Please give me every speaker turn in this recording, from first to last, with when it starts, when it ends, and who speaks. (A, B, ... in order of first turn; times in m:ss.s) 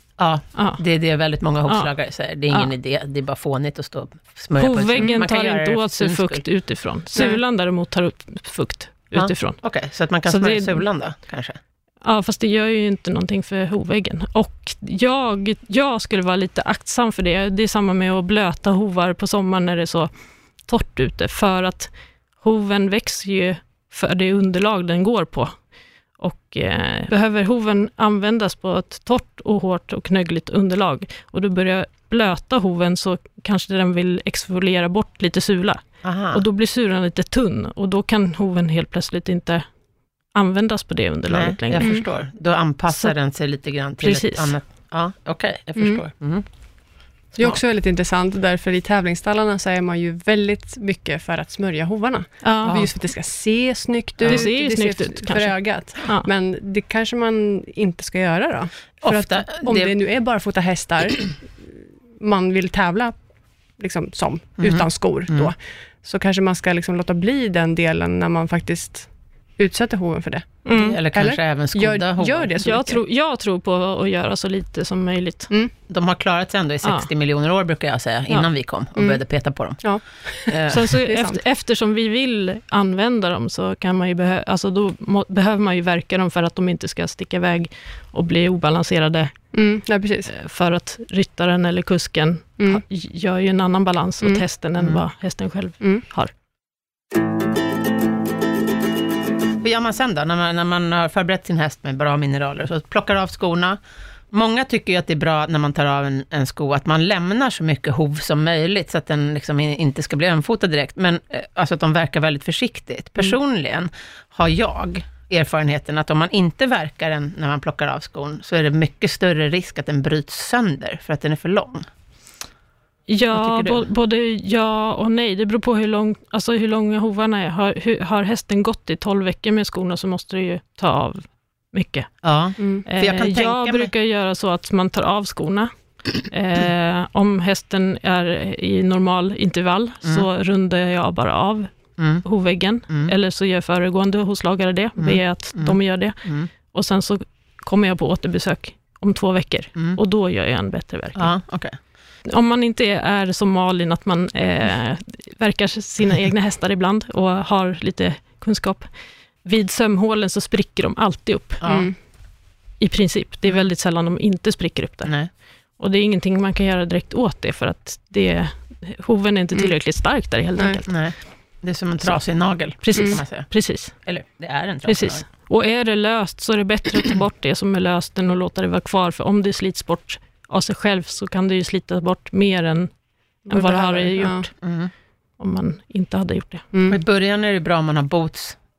0:00.2-0:06.4 A
0:00.6-0:00.8 B
0:04.6-0:09.6 B
0:09.1-0:11.6 A
0:10.3-0:10.8 B
0:12.0-0:20.1 B
0:20.7-0:25.6 B
0:26.2-0:39.7 B
0:36.0-0:36.4 A
0:40.3-0:41.9 B
0:41.3-0:46.5 A
0:41.8-0:42.0 C
0:44.0-0:44.6 B
0:45.8-0:46.0 C
0:47.4-1:03.1 C
0:52.4-0:52.8 B
0:54.2-0:54.5 A
0:54.3-0:56.3 B
0:59.0-0:59.9 A
1:03.8-1:13.0 C
1:04.6-1:05.5 A
1:10.7-1:11.0 B
1:10.7-1:12.5 A
1:12.6-1:15.5 B
1:15.9-1:19.9 A
1:16.8-1:17.1 B
1:19.0-1:19.2 C
1:19.8-1:21.4 C
1:20.5-1:20.9 A
1:20.7-1:29.3 B
1:29.5-1:30.3 C
1:30.3-1:36.3 B
1:39.6-1:43.8 A
1:44.3-2:01.9 A
2:03.1-2:12.1 B
2:03.3-2:03.8 A
2:12.2-2:13.9 A
2:12.6-2:12.8 C
2:12.9-2:15.7 B
2:16.2-2:21.7 B
2:22.0-2:22.2 A
2:22.2-2:31.3 B
2:25.0-2:26.5 A
2:31.2-2:31.8 A
2:32.3-2:38.9 B
2:39.4-2:41.6 B
2:41.6-2:41.9 A
2:41.6-2:41.9 C
2:42.8-2:45.1 B
2:45.8-2:51.0 B
2:50.9-2:55.2 A
2:52.8-2:53.9 B
2:54.9-3:02.9 B
3:03.5-3:04.4 C
3:03.5-3:04.5 B
3:04.6-3:04.9 A
3:05.4-3:06.6 B
3:06.7-3:07.0 C
3:06.9-3:08.6 A